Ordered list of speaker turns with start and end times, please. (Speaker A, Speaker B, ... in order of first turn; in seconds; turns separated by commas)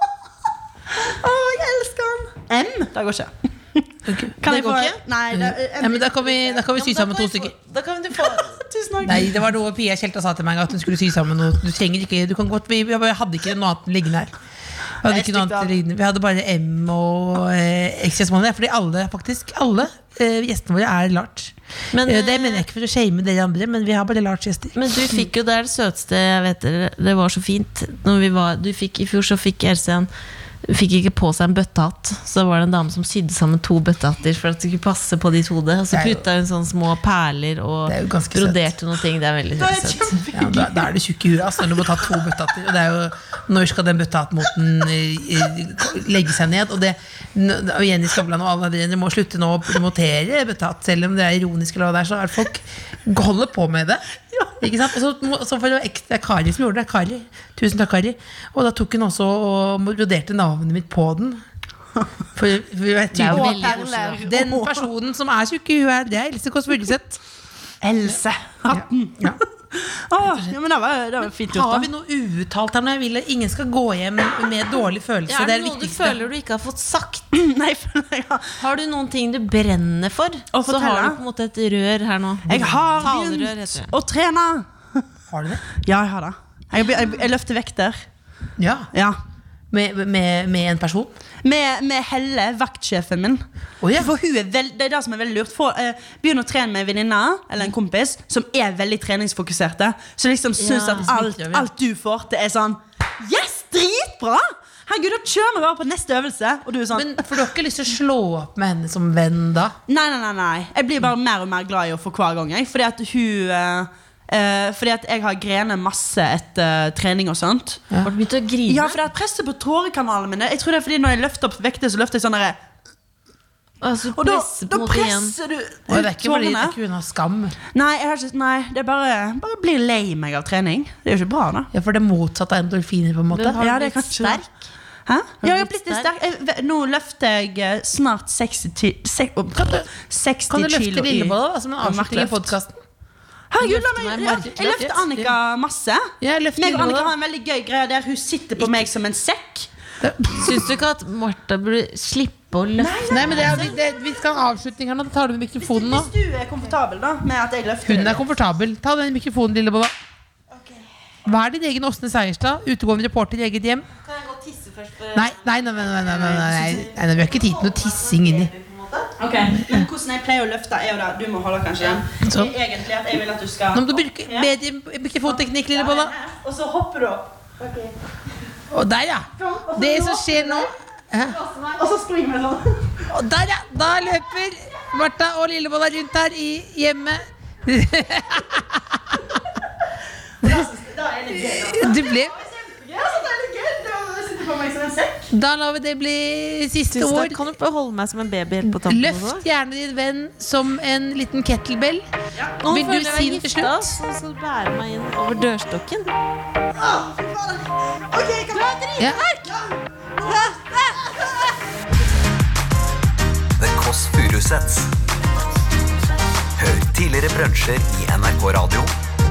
Speaker A: 1.0-6.7, Speaker B: 4.1-7.5, Speaker C: 4.5-5.0, Speaker C: 6.7-8.6, Speaker A: 8.2-9.4, Speaker B: 9.1-14.3, Speaker B: 15.0-25.2, Speaker A: 15.1-15.7, Speaker C: 21.9-22.6, Speaker C: 24.8-30.1, Speaker C: 30.6-40.1, Speaker B: 35.9-36.2, Speaker B: 37.9-38.7, Speaker A: 39.6-40.9, Speaker B: 40.3-54.0, Speaker B: 54.6-61.4, Speaker B: 62.4-67.2, Speaker C: 63.1-64.2, Speaker A: 63.3-64.9, Speaker A: 67.8-71.9, Speaker B: 68.7-69.4, Speaker B: 70.2-70.5, Speaker B: 71.5-76.2, Speaker C: 75.3-77.2, Speaker A: 77.3-78.6, Speaker C: 78.6-83.9, Speaker A: 80.5-81.2, Speaker B: 82.5-83.1, Speaker A: 82.5-85.0, Speaker B: 85.3-85.6, Speaker A: 85.8-88.0, Speaker B: 88.6-88.9, Speaker B: 89.7-91.1, Speaker A: 91.4-93.4, Speaker B: 93.8-94.1, Speaker A: 93.9-107.4, Speaker C: 100.6-101.1, Speaker B: 100.9-101.7, Speaker B: 106.9-109.8, Speaker A: 109.9-117.8, Speaker C: 118.0-119.0, Speaker A: 118.7-122.6, Speaker C: 123.8-125.3, Speaker A: 124.2-126.8, Speaker B: 125.9-127.5, Speaker A: 127.7-131.7, Speaker B: 131.7-133.8, Speaker A: 133.3-134.4, Speaker C: 133.6-134.5, Speaker A: 135.1-142.5, Speaker C: 135.4-136.1, Speaker B: 140.5-142.8, Speaker A: 143.5-149.7, Speaker B: 143.6-145.4, Speaker B: 146.2-147.1, Speaker B: 148.6-148.9, Speaker B: 150.0-150.6, Speaker C: 150.3-153.7, Speaker A: 152.8-154.3, Speaker B: 153.1-156.1, Speaker A: 155.6-158.2, Speaker B: 157.8-159.9, Speaker B: 161.2-163.9, Speaker C: 164.0-169.1, Speaker B: 165.2-168.5, Speaker A: 169.2-174.5, Speaker B: 172.2-172.6, Speaker B: 173.7-176.1, Speaker A: 175.3-177.9, Speaker B: 178.7-181.4, Speaker A: 179.4-180.7, Speaker A: 181.4-183.1, Speaker B: 183.1-189.4, Speaker B: 190.4-190.7, Speaker A: 190.4-195.3, Speaker B: 191.3-192.4, Speaker B: 195.3-197.5, Speaker C: 196.9-199.5, Speaker B: 198.6-202.1, Speaker C: 202.6-206.2, Speaker B: 202.6-204.0, Speaker A: 206.8-211.6, Speaker D: 213.6-214.9, Speaker D: 216.6-218.9